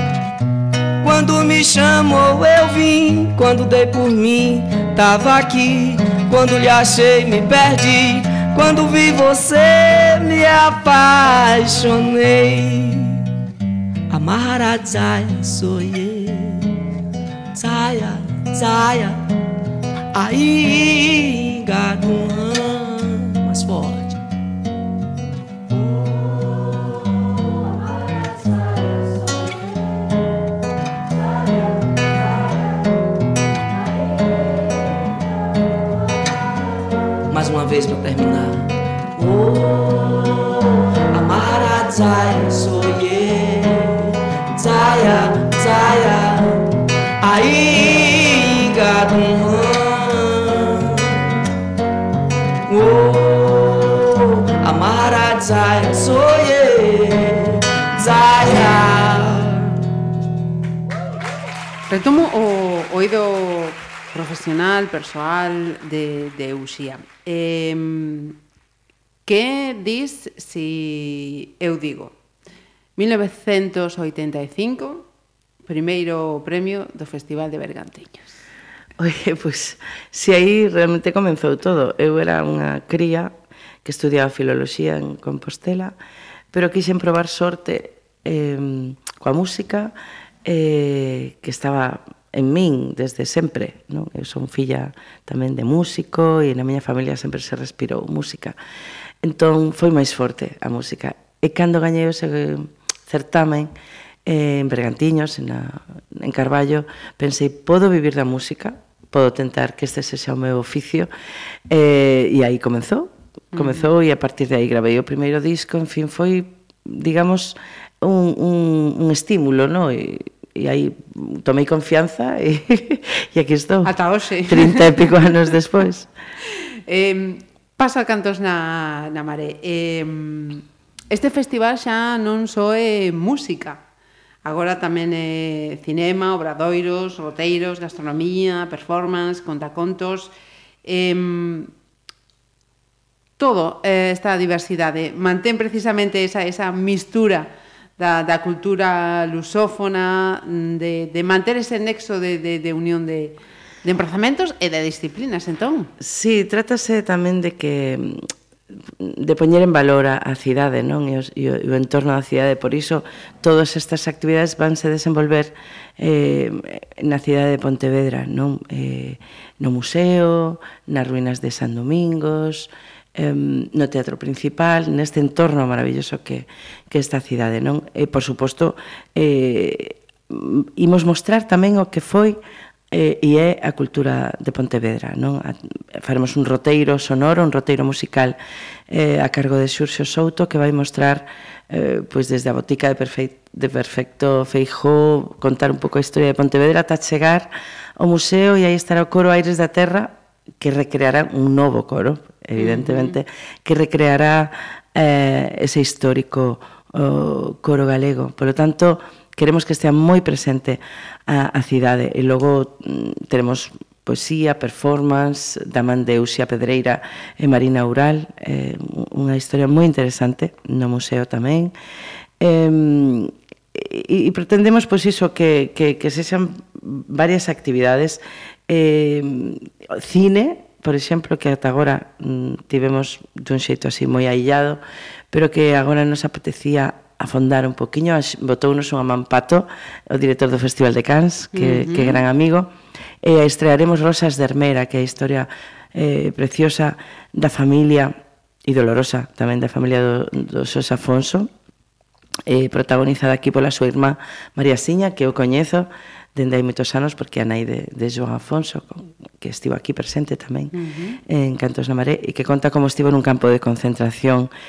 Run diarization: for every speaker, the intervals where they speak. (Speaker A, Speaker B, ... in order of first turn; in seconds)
Speaker A: 1.0-13.2, 14.1-16.7, 17.5-19.2, 20.1-24.2, 37.3-46.6, 47.2-51.2, 52.7-59.8
Speaker B: 61.9-68.4, 69.2-72.2, 73.0-75.1, 75.6-78.4, 113.5-113.9, 123.8-125.3, 126.9-133.8, 134.4-140.3, 140.8-141.7, 143.4-155.9, 202.6-203.2, 241.5-242.2, 260.7-261.2
Speaker C: 79.0-83.3, 83.8-86.0, 86.5-89.9, 90.4-98.6, 99.2-103.7, 104.2-111.1, 111.7-123.9, 124.5-126.1, 156.0-158.2, 159.0-182.4, 182.9-188.4, 188.9-221.7, 222.4-242.7, 243.2-251.5, 252.4-260.7, 261.2-264.5